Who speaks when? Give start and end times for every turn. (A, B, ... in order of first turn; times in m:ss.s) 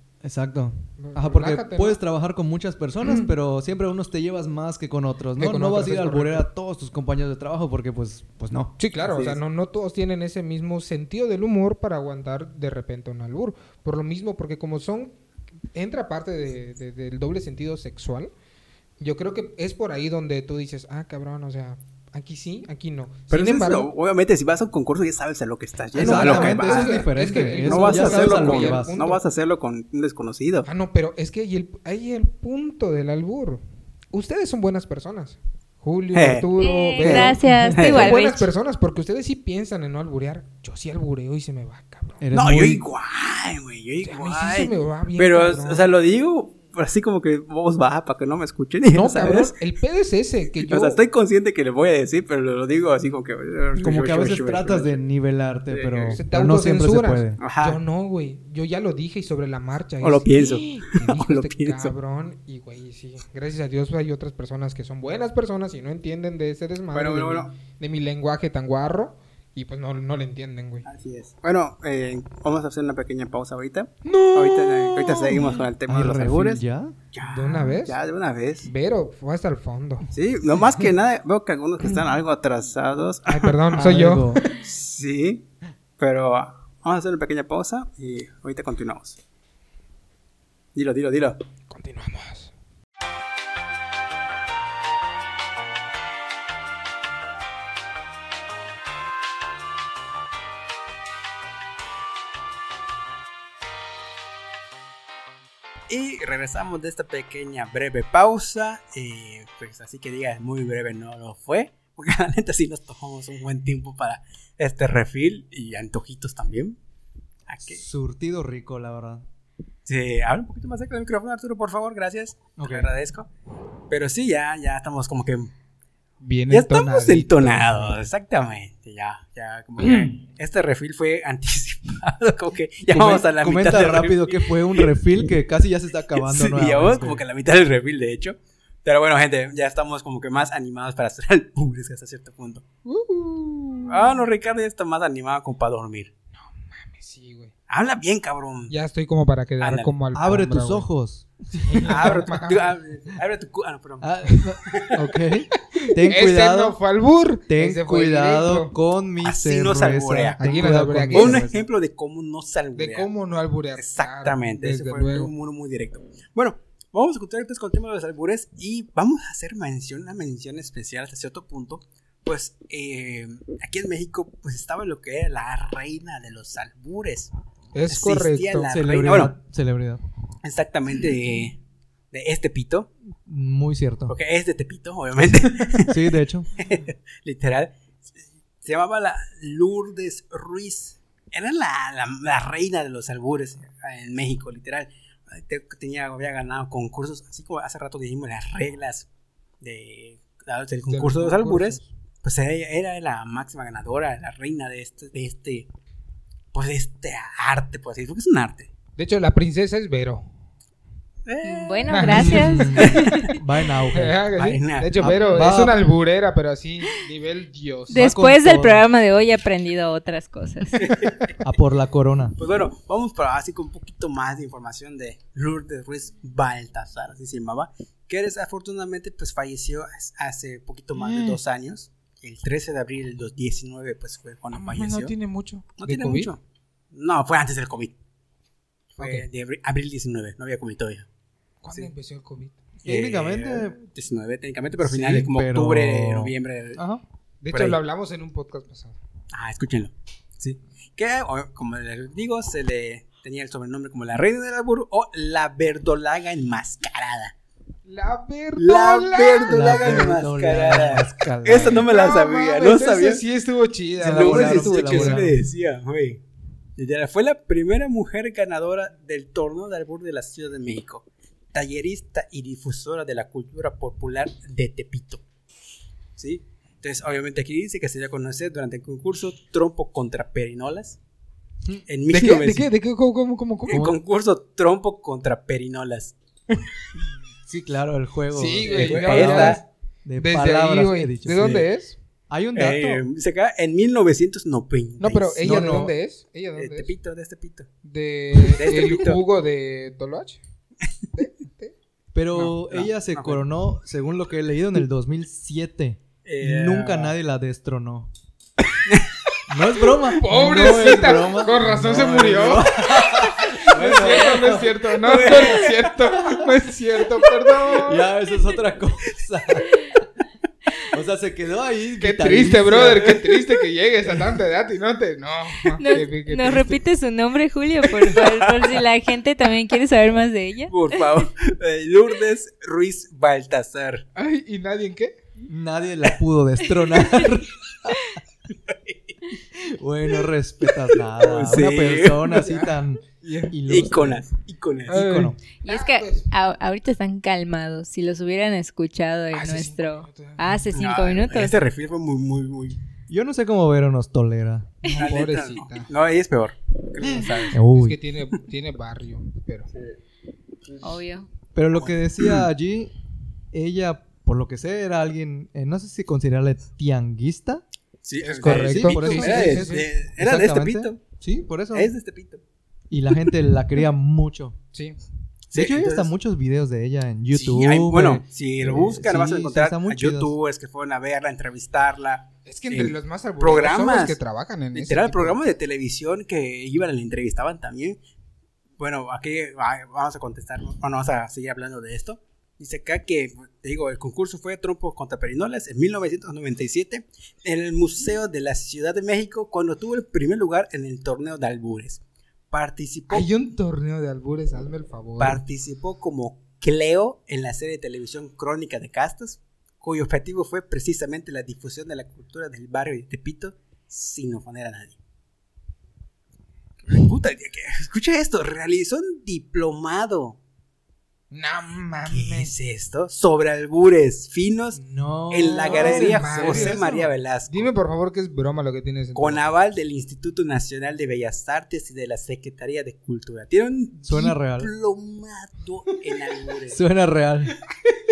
0:00.2-0:08.8 A
0:01.0-0:02.0 B
0:03.0-0:03.3 B
0:05.4-0:06.4 B
0:08.8-0:15.1 B
0:09.0-0:09.4 C
0:15.7-0:18.3 B
0:19.0-0:23.9 B
0:23.3-0:27.0 C
0:25.9-0:29.0 A
0:25.9-0:29.2 B
0:27.6-0:30.7 C
0:30.6-0:42.2 B
0:36.1-0:36.5 C
0:36.6-0:38.5 D
0:37.0-0:38.1 C
0:42.2-0:42.8 A
0:42.3-0:49.6 C
0:44.0-0:45.8 B
0:48.9-0:51.0 B
0:50.6-0:55.0 C
0:53.8-0:57.4 A
0:55.7-0:56.2 C
0:56.1-1:10.9 B
0:57.4-0:57.8 C
1:00.0-1:01.9 C
1:06.9-1:07.5 C
1:10.8-1:16.6 C
1:14.0-1:15.6 B
1:15.9-1:17.0 A
1:17.1-1:18.7 C
1:17.2-1:18.0 B
1:18.6-1:20.1 B
1:20.1-1:23.6 C
1:23.3-1:24.4 B
1:23.7-1:24.4 A
1:24.4-1:25.5 C
1:26.0-1:29.2 C
1:30.7-1:31.4 C
1:31.7-1:32.5 B
1:45.9-1:56.8 C
1:57.5-1:57.8 C
1:57.7-1:59.2 A
1:59.8-2:03.3 C
2:02.6-2:02.9 A
2:03.9-2:05.5 C
2:06.2-2:08.0 B
2:06.5-2:14.9 C
2:09.8-2:10.1 B
2:12.9-2:17.2 A
2:16.1-2:22.6 C
2:22.8-2:24.2 B
2:23.9-2:26.1 C
2:26.4-2:27.5 B
2:27.7-2:28.7 C
2:28.7-2:30.9 B
2:29.6-2:29.9 C
2:30.1-2:32.2 A
2:31.6-2:32.7 B
2:31.8-2:35.0 C
2:34.0-2:36.8 A
2:35.8-2:38.7 B
2:37.5-2:41.5 A
2:39.2-2:43.1 C
2:40.4-2:41.6 B
2:42.7-2:45.3 B
2:43.8-2:57.3 C
2:57.7-2:58.7 B
2:57.9-2:59.3 C
2:58.7-3:00.0 A
3:00.4-3:01.6 C
3:02.1-3:02.9 C
3:03.2-3:04.2 A
3:04.1-3:07.8 C
3:05.8-3:06.5 A
3:08.6-3:19.1 C
3:19.6-3:25.7 C
3:20.9-3:21.9 B
3:26.5-3:28.7 C
3:29.0-3:30.2 B
3:31.2-3:33.3 C
3:31.4-3:33.4 D
3:31.9-3:32.8 B
3:32.1-3:34.2 A
3:33.9-3:38.0 B
3:34.4-3:35.4 C
3:35.0-3:35.8 A
3:37.9-3:38.8 A
3:37.9-3:40.9 D
3:40.8-3:41.3 C
3:41.4-3:42.4 A
3:42.4-3:55.1 C
3:51.0-3:51.4 B
3:54.5-3:56.3 B
3:55.8-3:56.4 C
3:56.9-3:58.0 C
3:58.9-4:01.0 C
3:59.0-3:59.2 B
4:01.6-4:02.6 B
4:02.8-4:03.8 A
4:02.8-4:06.8 C
4:04.8-4:07.0 A
4:07.4-4:09.0 B
4:07.5-4:07.8 C
4:09.3-4:17.3 C
4:17.8-4:20.0 B
4:18.6-4:23.2 C
4:19.5-4:21.8 A
4:21.5-4:25.3 B
4:24.0-4:25.4 A
4:24.0-4:26.2 C
4:26.8-4:35.2 C
4:36.2-4:41.0 C
4:41.9-4:42.7 C
4:42.1-4:43.8 B
4:43.7-4:46.2 C
4:43.7-4:44.0 A
4:47.4-4:51.7 A
4:48.3-4:49.6 B
4:48.7-4:49.6 C
4:50.2-4:52.0 B
4:52.3-4:53.0 A
4:52.5-4:55.8 C
4:55.0-4:56.9 B
4:55.4-4:55.9 A
4:56.6-4:57.7 C
4:57.8-5:00.4 B
4:58.4-4:59.2 C
5:01.1-5:01.7 B
5:02.1-5:08.1 A
5:02.7-5:03.4 C
5:06.2-5:07.2 C
5:09.5-5:15.5 A
5:10.1-5:18.1 B
5:13.6-5:15.9 C
5:17.6-5:20.0 A
5:20.8-5:23.2 A
5:22.0-5:26.8 B
5:25.8-5:31.3 D
5:28.0-5:28.8 C
5:30.7-5:34.0 C
5:34.2-5:35.2 B
5:35.4-5:38.2 A
5:36.9-5:37.4 D
5:38.5-5:39.2 C
5:39.5-5:44.2 A
5:41.2-5:42.4 C
5:42.3-5:42.7 B
5:43.2-5:45.1 C
5:44.9-5:46.3 B
5:44.9-5:45.4 A
5:45.6-5:51.6 D
5:49.3-5:50.7 B
5:50.7-5:52.8 C
5:53.1-5:54.8 A
5:54.8-5:55.9 B
5:54.9-5:57.6 C
5:57.5-5:58.0 A
5:57.7-5:59.7 B
6:00.6-6:00.9 C
6:00.8-6:01.3 D
6:01.5-6:02.9 A
6:01.7-6:02.4 C
6:03.5-6:07.6 A
6:08.0-6:11.0 C
6:08.2-6:09.9 B
6:08.4-6:11.9 A
6:11.7-6:12.4 C
6:12.9-6:14.6 A
6:15.5-6:16.1 C
6:15.5-6:20.3 A
6:17.3-6:24.2 C
6:22.4-6:25.4 B
6:24.7-6:28.0 C
6:28.8-6:43.3 C
6:43.1-6:45.4 B
6:45.2-6:55.0 C
6:56.9-7:00.4 C
7:01.3-7:02.5 B
7:02.1-7:07.7 C
7:04.8-7:07.1 A
7:05.6-7:06.8 B
7:07.5-7:09.4 B
7:09.1-7:16.8 C
7:14.0-7:14.7 A
7:16.7-7:17.6 A